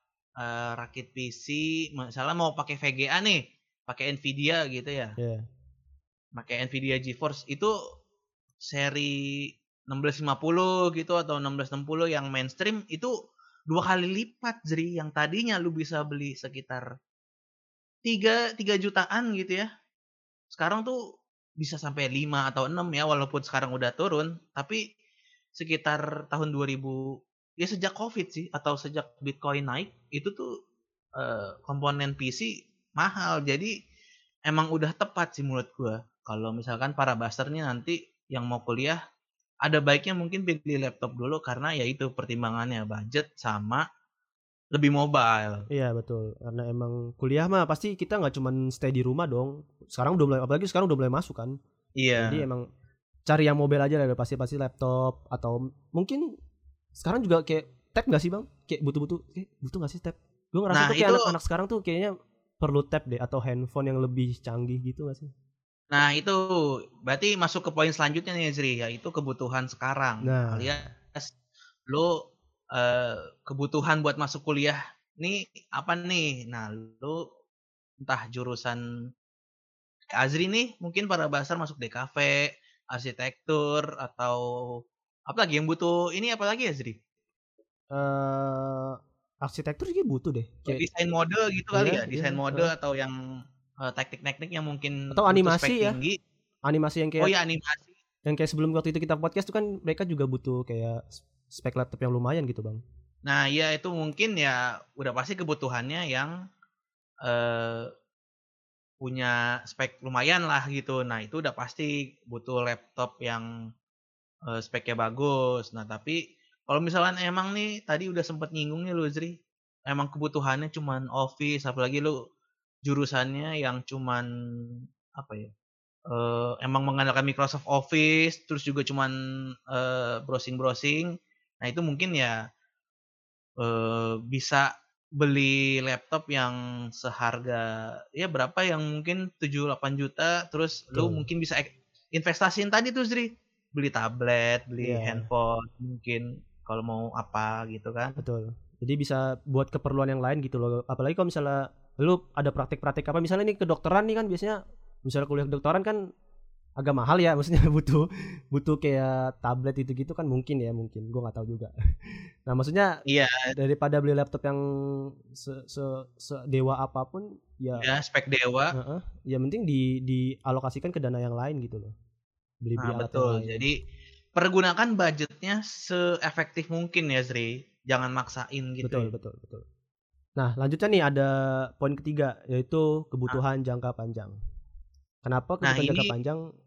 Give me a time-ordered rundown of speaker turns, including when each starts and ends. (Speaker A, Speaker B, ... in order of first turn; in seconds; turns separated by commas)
Speaker A: 0.4-5.2, Speaker B: 5.2-5.4, Speaker A: 6.3-7.7, Speaker A: 8.6-13.1, Speaker A: 13.7-16.9, Speaker A: 18.1-19.7, Speaker A: 20.5-21.0, Speaker A: 21.6-24.8, Speaker A: 25.6-27.1, Speaker A: 27.6-30.5, Speaker A: 31.2-33.7, Speaker A: 34.5-39.0, Speaker A: 39.6-43.8, Speaker A: 44.7-45.6, Speaker B: 45.7-51.6, Speaker A: 52.0-52.4, Speaker B: 52.2-52.6, Speaker B: 53.3-56.3, Speaker B: 57.0-65.3, Speaker A: 60.7-61.3, Speaker A: 65.9-66.5, Speaker A: 67.0-71.3, Speaker B: 70.2-70.8, Speaker A: 71.9-72.2, Speaker A: 72.7-77.2, Speaker A: 78.0-78.8, Speaker A: 80.1-87.0, Speaker B: 87.9-90.8, Speaker A: 90.7-93.2, Speaker B: 91.7-92.7, Speaker A: 93.8-96.2, Speaker B: 95.1-96.0, Speaker B: 96.7-97.3, Speaker A: 97.2-97.9, Speaker B: 98.2-102.8, Speaker A: 103.2-106.3, Speaker A: 107.2-107.9, Speaker A: 109.0-113.5, Speaker A: 114.5-119.3, Speaker A: 119.9-122.1, Speaker A: 122.8-124.3, Speaker A: 125.2-125.5, Speaker A: 126.1-129.1, Speaker A: 129.7-131.1, Speaker A: 131.6-132.4, Speaker A: 133.6-148.2, Speaker B: 140.9-141.2, Speaker B: 144.8-145.3, Speaker B: 148.2-156.1, Speaker B: 156.8-161.7, Speaker B: 162.4-163.0, Speaker A: 163.1-163.5, Speaker B: 163.5-167.8, Speaker A: 167.8-168.7, Speaker B: 168.7-171.9, Speaker B: 172.6-173.6, Speaker A: 172.8-173.8, Speaker A: 174.3-179.1, Speaker B: 178.8-179.6, Speaker B: 180.4-184.4, Speaker B: 185.2-186.4, Speaker A: 185.6-186.1